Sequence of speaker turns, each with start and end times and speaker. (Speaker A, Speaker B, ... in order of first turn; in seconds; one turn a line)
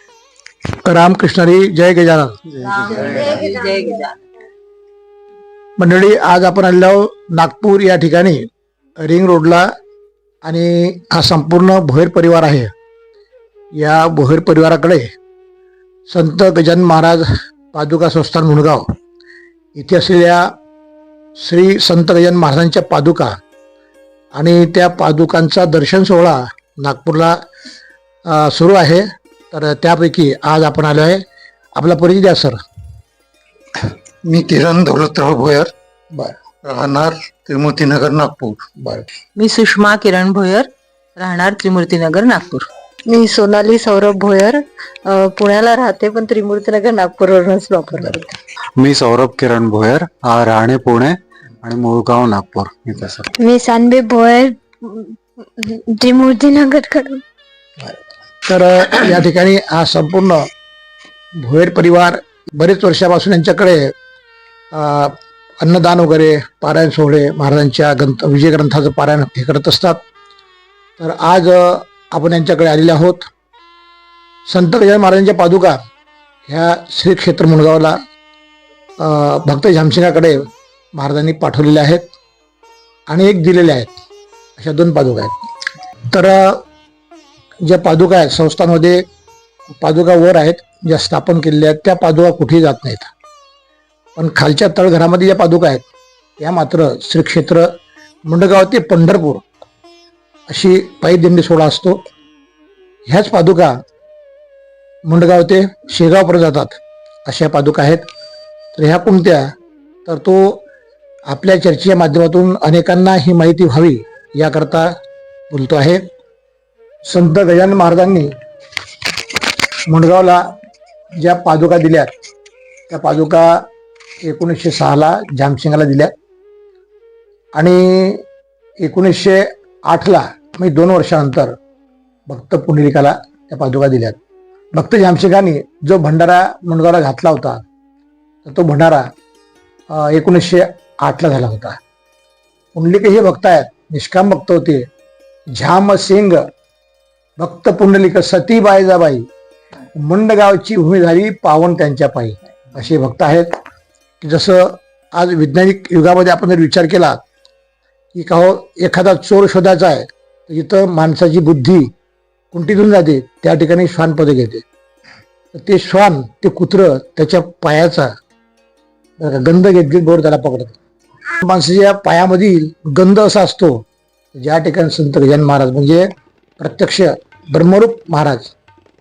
Speaker A: 0.8-2.4
Speaker B: 2.6-3.4
Speaker C: 2.6-4.2
Speaker A: 5.8-9.7
Speaker A: 10.4-12.7
Speaker A: 13.7-15.1
Speaker A: 16.1-18.9
Speaker A: 19.7-20.5
Speaker A: 21.4-23.4
Speaker A: 24.3-27.4
Speaker A: 28.3-31.2
Speaker A: 31.8-32.6
Speaker D: 34.2-35.7
Speaker D: 36.6-38.7
Speaker A: 38.8-39.0
Speaker C: 39.4-42.7
Speaker E: 43.1-48.4
Speaker B: 48.8-53.2
Speaker F: 53.4-57.2
Speaker A: 57.8-60.5
Speaker A: 61.4-63.9
Speaker A: 64.7-70.0
Speaker A: 71.0-73.2
Speaker A: 74.5-75.8
Speaker A: 76.5-78.0
Speaker A: 79.0-82.0
Speaker A: 83.1-84.0
Speaker A: 84.6-85.3
Speaker A: 86.1-86.6
Speaker A: 87.6-89.0
Speaker A: 89.8-93.1
Speaker A: 94.2-95.9
Speaker A: 96.4-97.7
Speaker A: 98.3-99.5
Speaker A: 100.5-102.0
Speaker A: 103.1-103.8
Speaker A: 105.1-108.0
Speaker A: 108.7-109.5
Speaker A: 110.0-110.6
Speaker A: 111.3-114.9
Speaker A: 115.5-116.0
Speaker A: 117.0-118.3
Speaker A: 119.9-120.5
Speaker A: 121.2-122.1
Speaker A: 122.9-123.6
Speaker A: 124.2-126.1
Speaker A: 127.5-128.2
Speaker A: 128.8-131.5
Speaker A: 132.3-134.2
Speaker A: 134.7-137.6
Speaker A: 138.4-139.1
Speaker A: 139.9-141.8
Speaker A: 142.7-144.9
Speaker A: 145.5-146.4
Speaker A: 147.4-149.2
Speaker A: 149.9-153.5
Speaker A: 154.2-157.2
Speaker A: 158.1-161.9
Speaker A: 162.5-164.6
Speaker A: 165.5-168.1
Speaker A: 169.2-170.8
Speaker A: 171.4-178.5